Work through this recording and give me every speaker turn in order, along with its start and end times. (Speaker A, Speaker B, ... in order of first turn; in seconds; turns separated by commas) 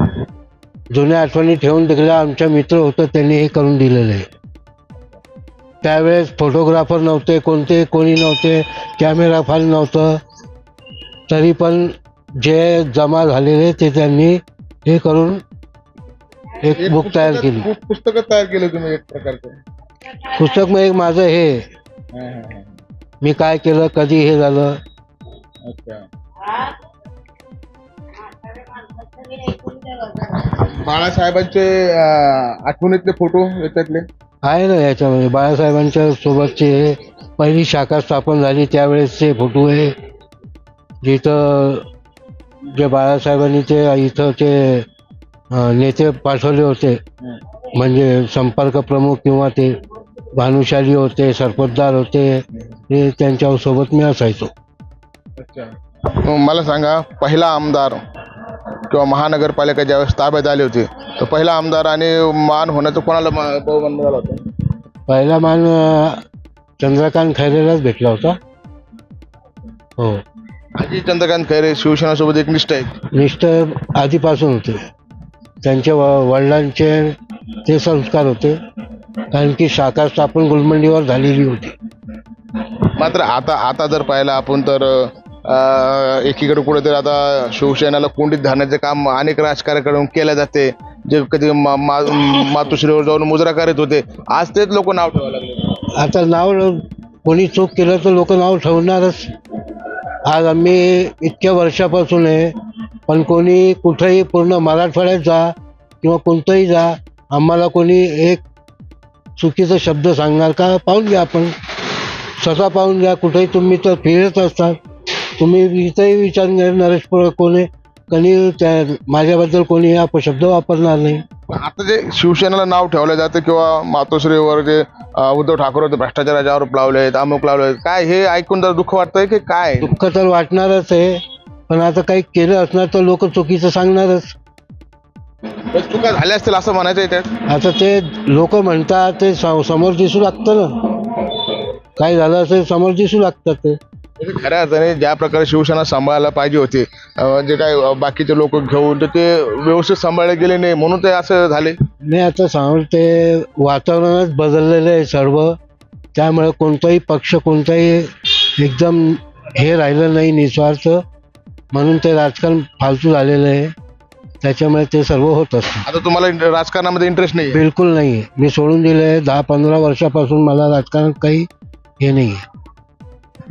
Speaker A: 0.9-4.2, Speaker A: 5.8-10.2, Speaker A: 11.3-15.4, Speaker A: 16.6-17.7, Speaker B: 16.7-19.6, Speaker A: 20.2-21.7, Speaker B: 22.1-22.7, Speaker A: 23.2-24.8, Speaker B: 25.6-26.6, Speaker B: 28.8-34.1, Speaker A: 34.4-39.9, Speaker A: 41.0-41.8, Speaker A: 42.7-44.9, Speaker A: 45.5-47.0, Speaker A: 47.7-49.7, Speaker A: 50.3-54.5, Speaker B: 55.4-58.0, Speaker B: 58.9-64.4, Speaker A: 65.1-66.2, Speaker A: 66.8-68.4, Speaker A: 70.0-70.2, Speaker B: 70.8-72.9, Speaker A: 73.1-74.8, Speaker A: 75.6-78.6, Speaker A: 79.3-81.7, Speaker B: 82.9-95.8, Speaker A: 95.9-99.3, Speaker A: 100.2-102.5, Speaker A: 103.1-108.4, Speaker A: 109.4-111.5, Speaker A: 112.4-114.8, Speaker A: 115.4-121.2, Speaker B: 121.5-129.9, Speaker A: 129.8-134.3, Speaker B: 135.7-137.3, Speaker A: 137.5-141.3, Speaker A: 142.0-143.8, Speaker B: 144.2-151.8, Speaker A: 152.0-155.5, Speaker A: 156.1-161.0, Speaker A: 161.7-163.7, Speaker A: 164.4-165.8, Speaker B: 165.8-167.6, Speaker A: 167.5-171.5, Speaker A: 172.0-172.4